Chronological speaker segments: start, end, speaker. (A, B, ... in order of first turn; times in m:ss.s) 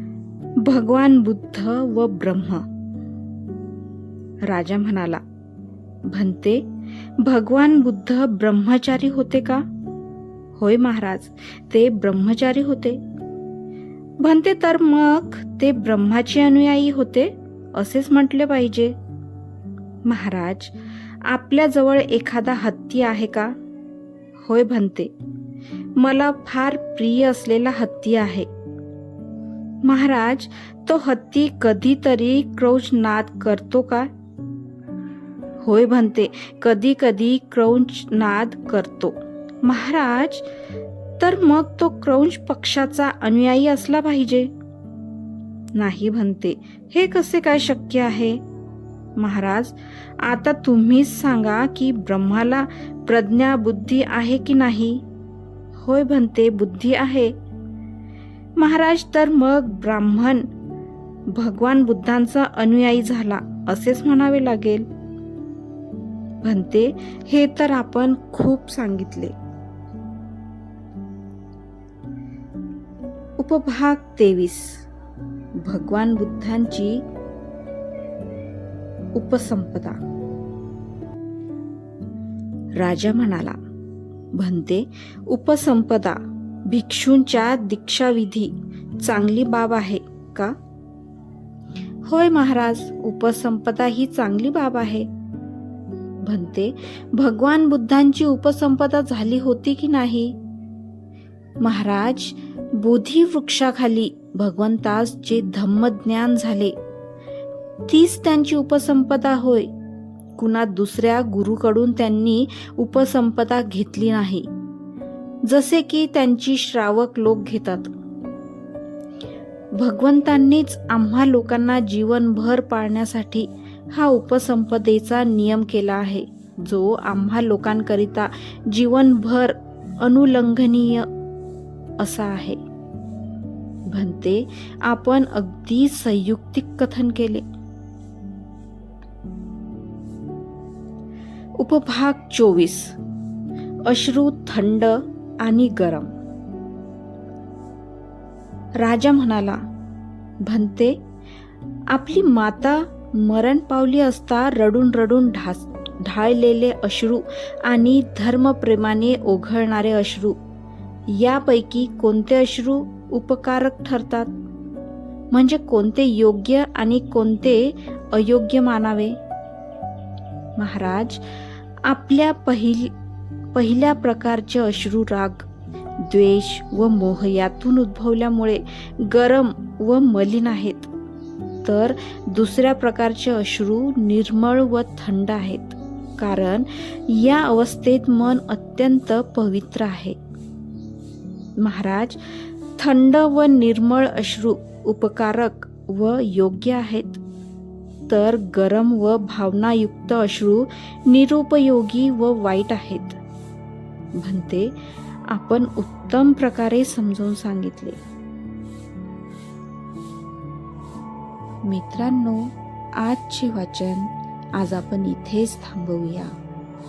0:00.6-0:02.6 A
0:04.5-0:05.2 A
0:06.1-0:06.6 A
0:07.2-0:09.6 A
0:10.6-0:13.0 A
0:14.2-0:18.9 A
0:20.0-0:20.7 A
0:21.3-0:23.5 A
0:24.4-0:25.1 A
0:26.0-0:28.5 A
0:29.8-0:34.1 A
0:35.6-0:40.4 A
0:41.2-0:44.5 A
0:45.7-0:48.4 A
0:49.2-0:55.0 A
0:55.8-0:57.3 A
0:58.6-1:00.5 A
1:01.3-1:04.8 A
1:06.4-1:09.3 A
1:13.4-1:14.8 A
1:15.6-1:17.0 A
1:19.1-1:20.0 A
1:22.8-1:23.6 A
1:24.3-1:30.5 A
1:32.0-1:35.1 A
1:36.2-1:40.3 A
1:41.6-1:46.7 A
1:47.9-1:49.7 A
1:50.4-1:54.5 A
1:55.4-1:57.9 A
1:59.7-2:11.1 A
2:12.0-2:12.6 A
2:13.9-2:17.4 A
2:21.6-2:23.0 A
2:23.8-2:26.1 A
2:28.8-2:29.6 A
2:30.4-2:31.0 A
2:31.9-2:40.4 A
2:41.1-2:44.3 A
2:45.3-2:49.1 A
2:50.6-2:51.2 A
2:51.8-2:52.9 A
2:53.5-2:55.4 A
2:56.0-3:00.9 A
3:01.6-3:10.2 A
3:11.6-3:12.2 A
3:12.8-3:17.2 A
3:18.1-3:23.2 A
3:24.2-3:24.7 A
3:25.3-3:28.0 A
3:31.6-3:36.3 A